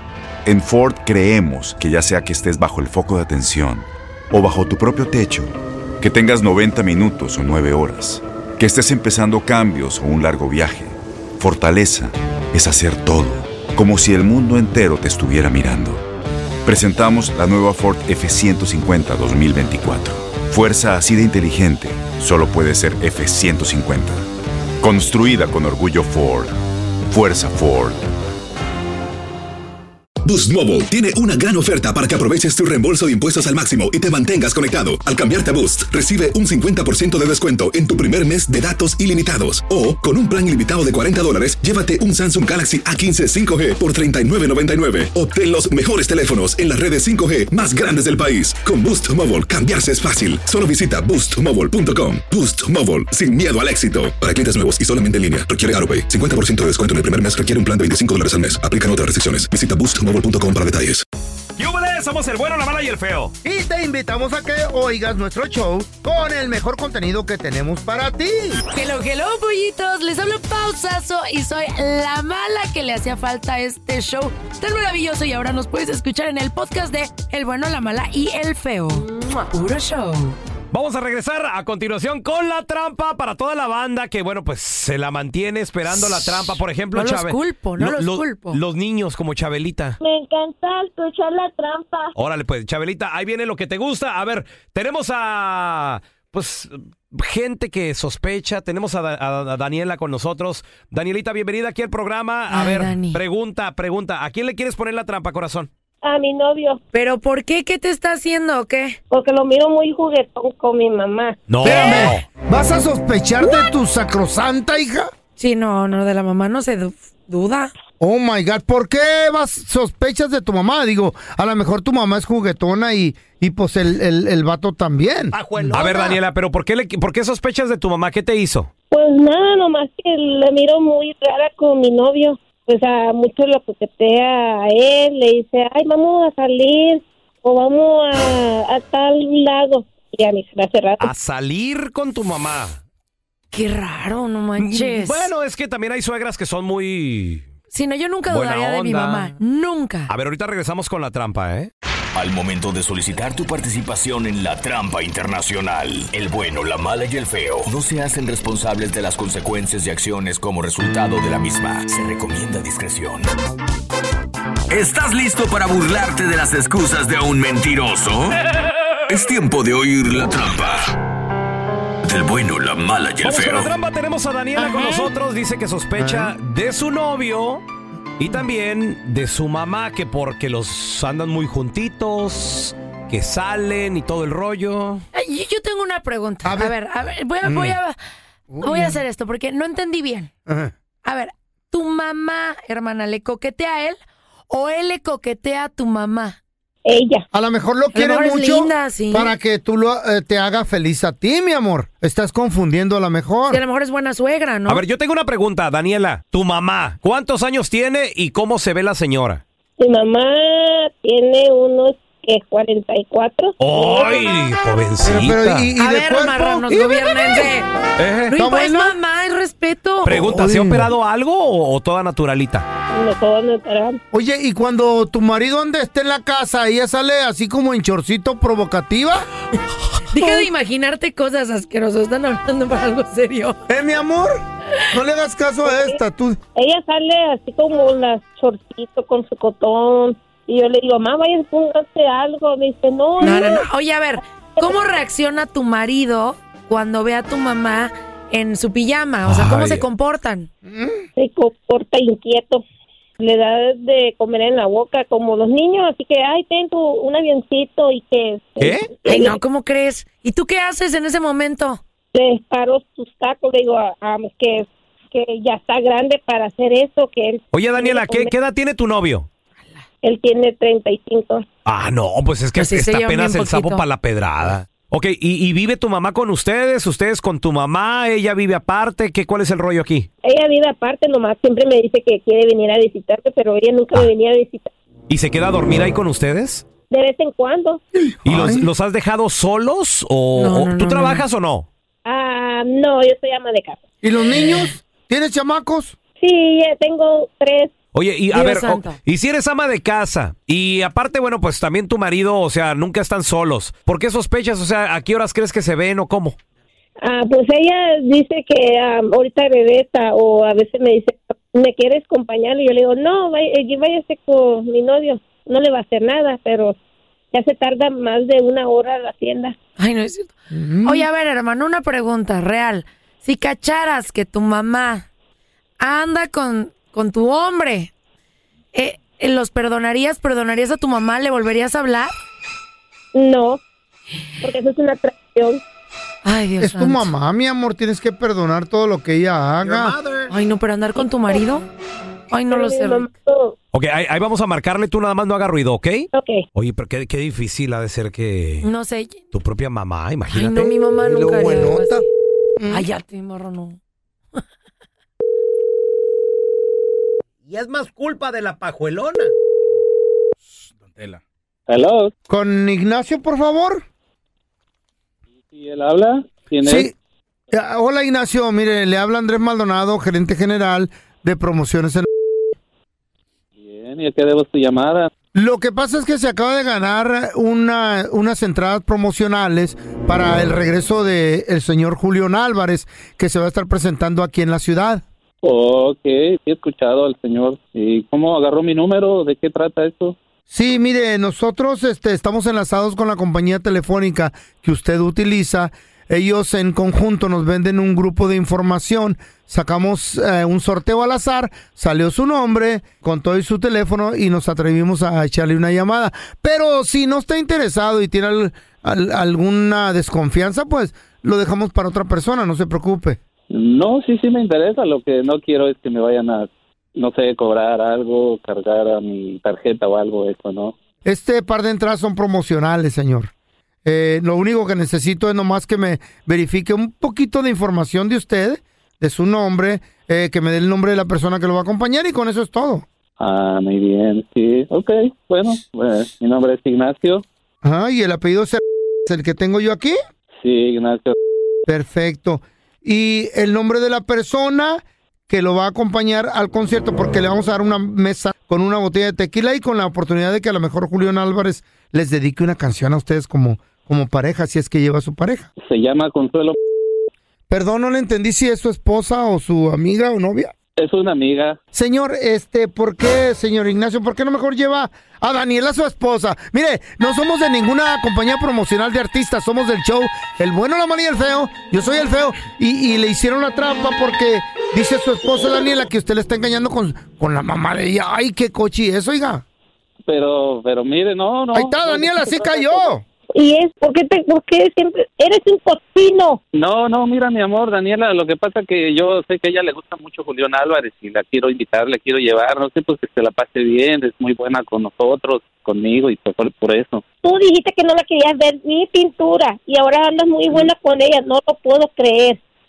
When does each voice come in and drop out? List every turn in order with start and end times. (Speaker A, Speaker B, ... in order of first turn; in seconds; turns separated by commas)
Speaker A: 0.4-16.0, Speaker A: 16.6-24.2, Speaker A: 24.8-26.5, Speaker A: 27.1-28.0, Speaker B: 30.2-61.0, Speaker C: 61.6-63.3, Speaker D: 63.4-68.6, Speaker E: 68.7-80.4, Speaker C: 80.7-90.0, Speaker E: 85.9-88.6, Speaker F: 90.0-92.1, Speaker C: 92.1-105.7, Speaker E: 102.5-103.2, Speaker F: 106.0-106.8, Speaker E: 106.9-109.0, Speaker F: 109.1-111.4, Speaker C: 111.5-112.2, Speaker D: 111.6-115.1, Speaker E: 115.4-117.7, Speaker D: 118.0-125.8, Speaker C: 125.3-128.7, Speaker E: 125.8-126.1, Speaker F: 128.9-141.1, Speaker C: 141.0-142.8, Speaker E: 143.5-145.3, Speaker C: 144.6-147.5, Speaker E: 147.7-150.1, Speaker C: 148.3-149.3, Speaker C: 150.1-151.7, Speaker G: 152.1-163.3, Speaker G: 164.7-168.4, Speaker G: 169.1-170.9, Speaker G: 172.0-173.7, Speaker C: 173.2-177.6, Speaker D: 176.0-176.3, Speaker C: 178.2-185.0, Speaker E: 185.1-188.0, Speaker D: 186.4-186.7, Speaker D: 187.4-187.8, Speaker D: 188.5-189.0, Speaker E: 188.6-190.3, Speaker D: 190.4-190.7, Speaker E: 191.0-194.0, Speaker E: 194.5-196.4, Speaker F: 196.8-197.2, Speaker D: 197.3-203.6, Speaker E: 197.9-199.3, Speaker E: 203.5-204.8, Speaker C: 204.7-209.4, Speaker F: 209.8-214.3, Speaker C: 213.6-215.7, Speaker D: 215.0-217.4, Speaker E: 215.8-217.7, Speaker C: 218.0-218.3, Speaker E: 218.3-220.2, Speaker D: 218.3-218.9, Speaker C: 220.0-222.7, Speaker D: 220.1-220.9, Speaker F: 222.9-224.0, Speaker D: 224.1-229.3, Speaker E: 230.1-233.6, Speaker D: 230.1-230.5, Speaker D: 233.7-236.4, Speaker F: 235.7-235.9, Speaker F: 236.6-243.7, Speaker E: 243.2-250.5, Speaker C: 249.2-249.9, Speaker D: 250.7-251.0, Speaker F: 251.2-252.6, Speaker F: 253.2-259.4, Speaker C: 258.6-258.9, Speaker E: 259.0-261.8, Speaker F: 262.1-268.3, Speaker C: 267.5-269.3, Speaker F: 270.0-271.4, Speaker C: 271.6-280.1, Speaker E: 272.6-273.8, Speaker F: 280.2-284.7, Speaker C: 285.1-286.6, Speaker F: 286.9-287.8, Speaker D: 287.9-288.7, Speaker C: 288.2-291.7, Speaker E: 290.4-291.2, Speaker F: 292.0-293.8, Speaker D: 294.0-295.9, Speaker F: 296.2-297.7, Speaker C: 297.9-306.4, Speaker E: 298.3-299.0, Speaker F: 307.0-316.8, Speaker F: 317.3-319.5, Speaker E: 319.8-325.1, Speaker D: 320.5-321.1, Speaker E: 325.8-327.9, Speaker E: 328.7-332.1, Speaker F: 333.1-333.6, Speaker F: 334.4-335.6, Speaker E: 336.2-337.1, Speaker D: 336.6-339.9, Speaker C: 339.6-340.3, Speaker E: 340.3-341.6, Speaker F: 341.0-341.4, Speaker E: 342.3-343.1, Speaker F: 342.5-343.6, Speaker C: 343.7-348.7, Speaker F: 346.1-346.4, Speaker E: 348.6-349.2, Speaker C: 349.3-350.7, Speaker E: 350.3-352.0, Speaker D: 350.9-352.1, Speaker D: 352.6-352.9, Speaker E: 352.7-353.8, Speaker C: 357.5-359.3, Speaker H: 361.7-362.1, Speaker D: 362.3-363.8, Speaker H: 365.5-366.9, Speaker D: 366.6-366.9, Speaker D: 367.5-372.1, Speaker H: 373.6-375.1, Speaker D: 375.3-385.0, Speaker H: 385.4-390.1, Speaker D: 390.5-413.2, Speaker H: 413.5-420.7, Speaker D: 421.0-423.3, Speaker D: 423.8-432.9, Speaker H: 433.2-437.2, Speaker D: 437.6-440.0, Speaker H: 440.4-441.1, Speaker D: 441.7-455.5, Speaker H: 455.6-456.6, Speaker D: 457.5-460.5, Speaker H: 460.8-461.6, Speaker D: 461.7-479.4, Speaker H: 480.1-482.9, Speaker D: 481.5-483.0, Speaker F: 483.3-486.4, Speaker H: 486.5-497.0, Speaker F: 497.2-502.4